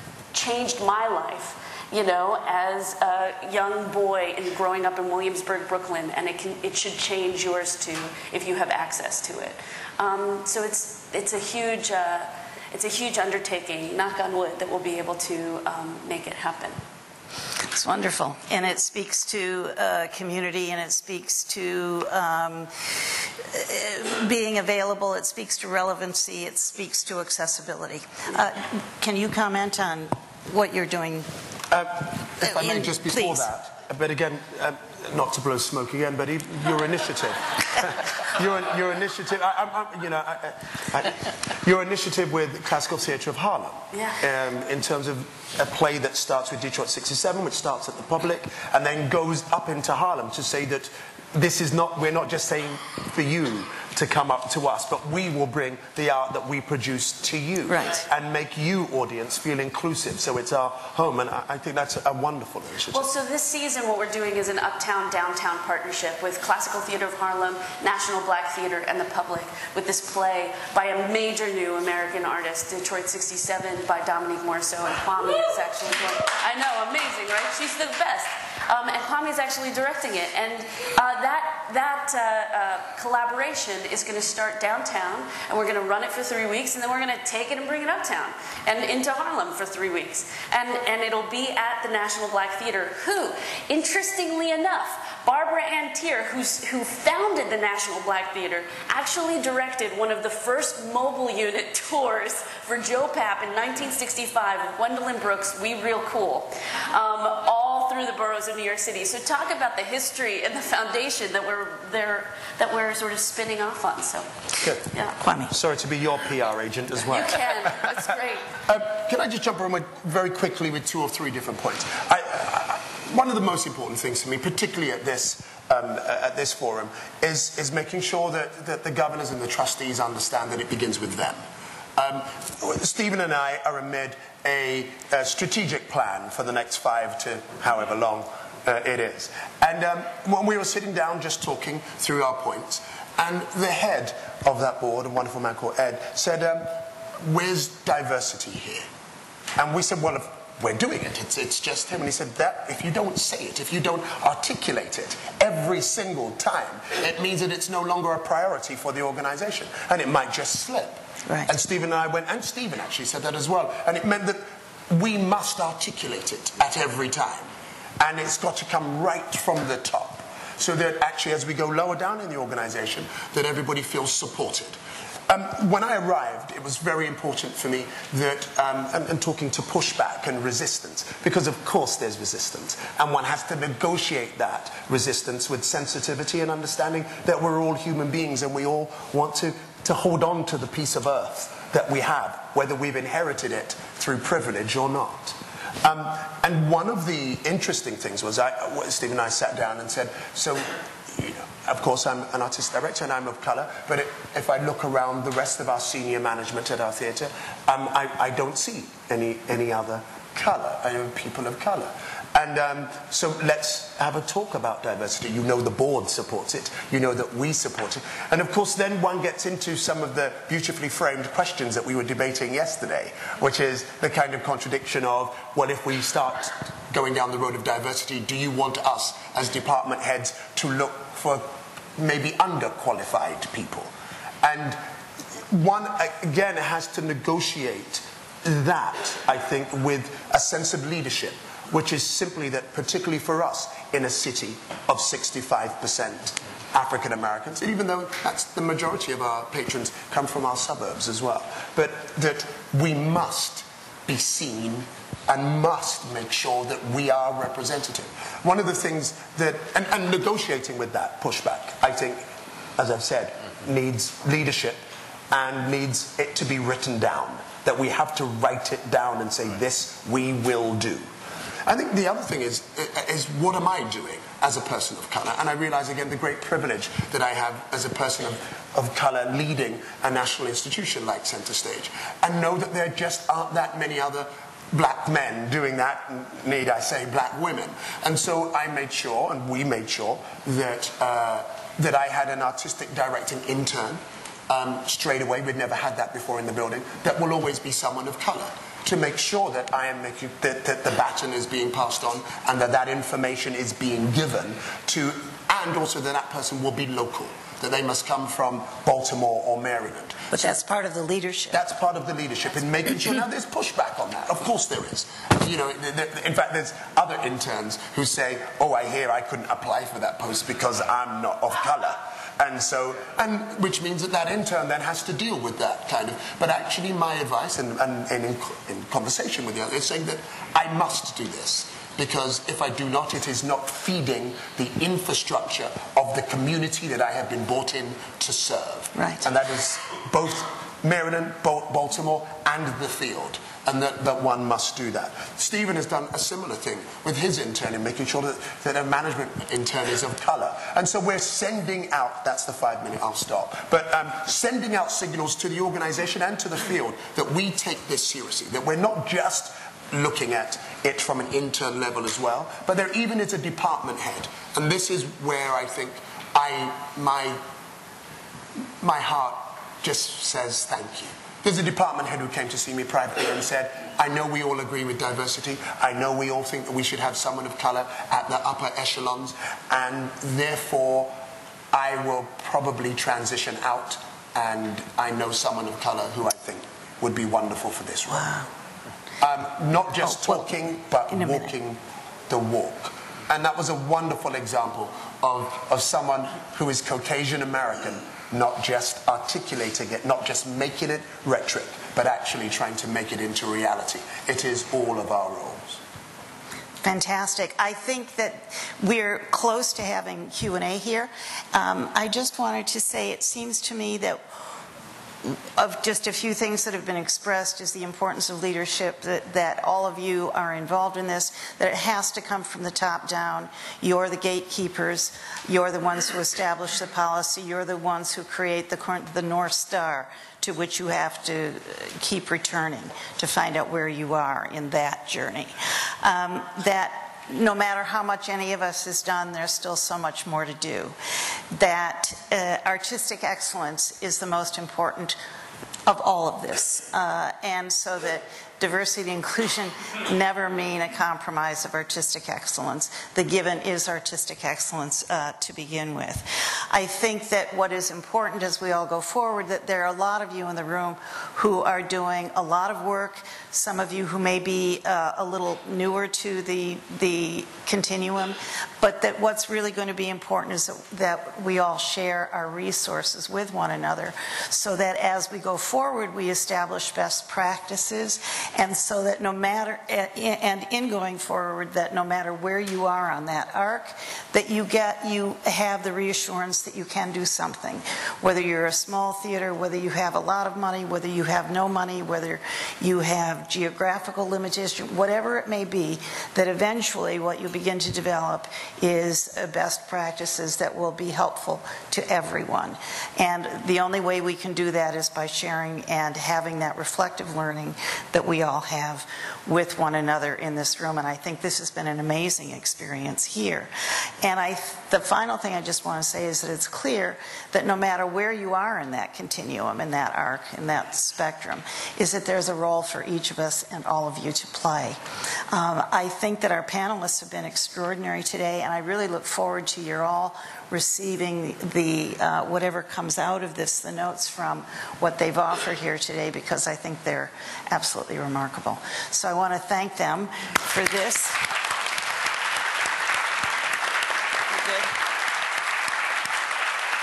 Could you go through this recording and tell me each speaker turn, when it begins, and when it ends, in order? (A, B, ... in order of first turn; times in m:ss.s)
0:00.3-0:16.8 A
0:17.7-0:31.3 B
0:31.7-1:03.1 C
0:32.4-0:33.5 B
0:43.9-0:44.2 A
0:57.7-0:58.0 B
1:02.9-1:55.2 A
1:54.6-1:54.9 C
1:55.2-1:55.5 B
1:55.5-1:57.9 C
1:57.0-1:58.6 A
1:58.6-2:11.4 C
2:12.0-2:28.8 C
2:29.6-2:47.5 C
2:41.2-2:41.5 B
2:48.0-2:54.8 C
2:55.3-3:53.9 C
3:54.4-3:54.8 C
3:55.5-4:31.1 C
4:31.6-5:10.5 C
5:10.3-5:11.6 B
5:11.5-6:07.4 C
5:38.9-5:39.2 B
6:08.8-6:21.1 C
6:21.7-6:28.4 C
6:28.1-6:28.5 B
6:29.2-6:45.8 C
6:30.0-6:31.6 B
6:46.8-6:54.6 B
6:55.2-7:21.0 B
7:21.5-7:25.2 B
7:25.8-8:33.7 B
8:34.2-9:01.4 B
9:04.5-9:04.9 B